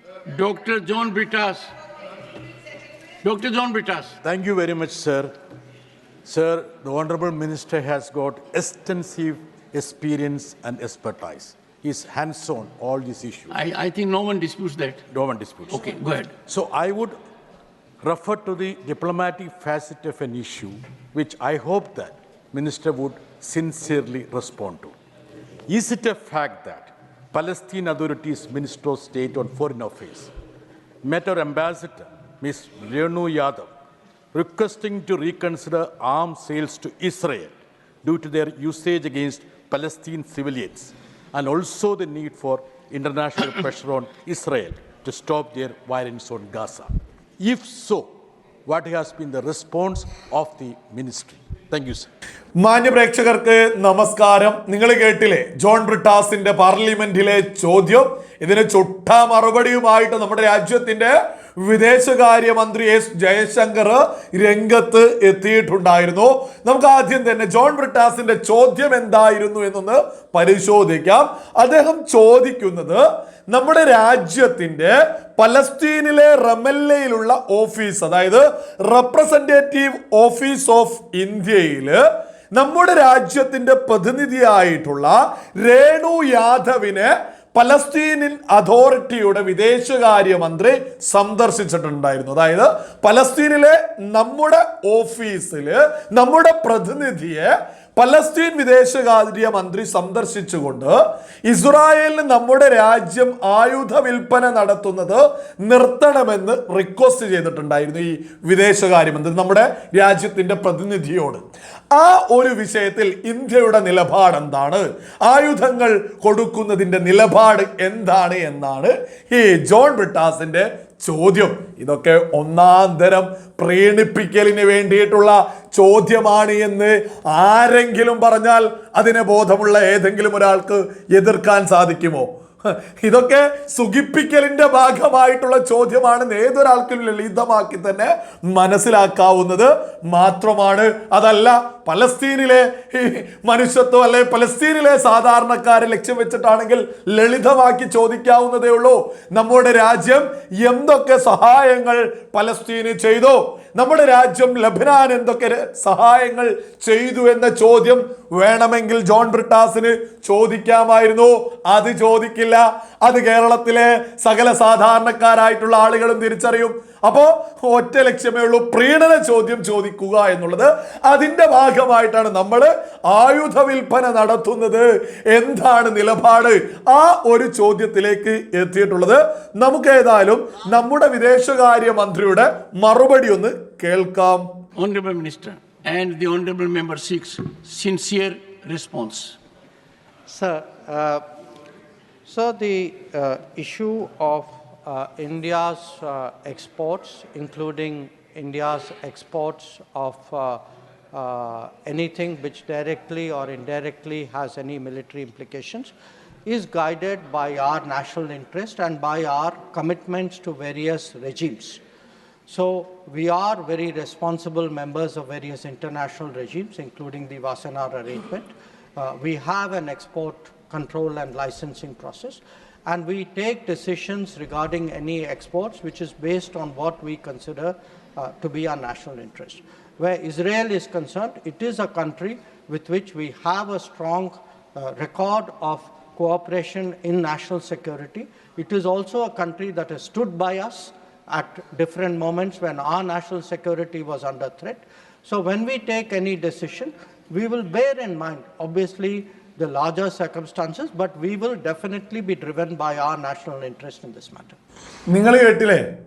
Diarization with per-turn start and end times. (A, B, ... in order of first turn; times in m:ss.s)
0:00.3-0:01.7 A
0:03.2-0:04.2 A
0:04.2-0:05.3 B
0:06.2-0:13.6 B
0:13.5-0:15.0 A
0:15.1-0:17.1 B
0:15.7-0:16.3 A
0:18.0-0:24.9 B
0:25.7-0:30.3 B
0:31.0-0:33.7 B
0:34.3-0:37.5 B
0:38.0-0:48.1 B
0:48.7-0:52.1 B
0:52.6-1:22.0 C
1:22.5-3:04.5 C
3:04.8-3:09.4 A
3:10.3-3:11.2 D
3:12.2-3:25.9 D
3:26.4-3:31.8 D
3:32.5-4:14.6 D
4:15.1-4:15.8 C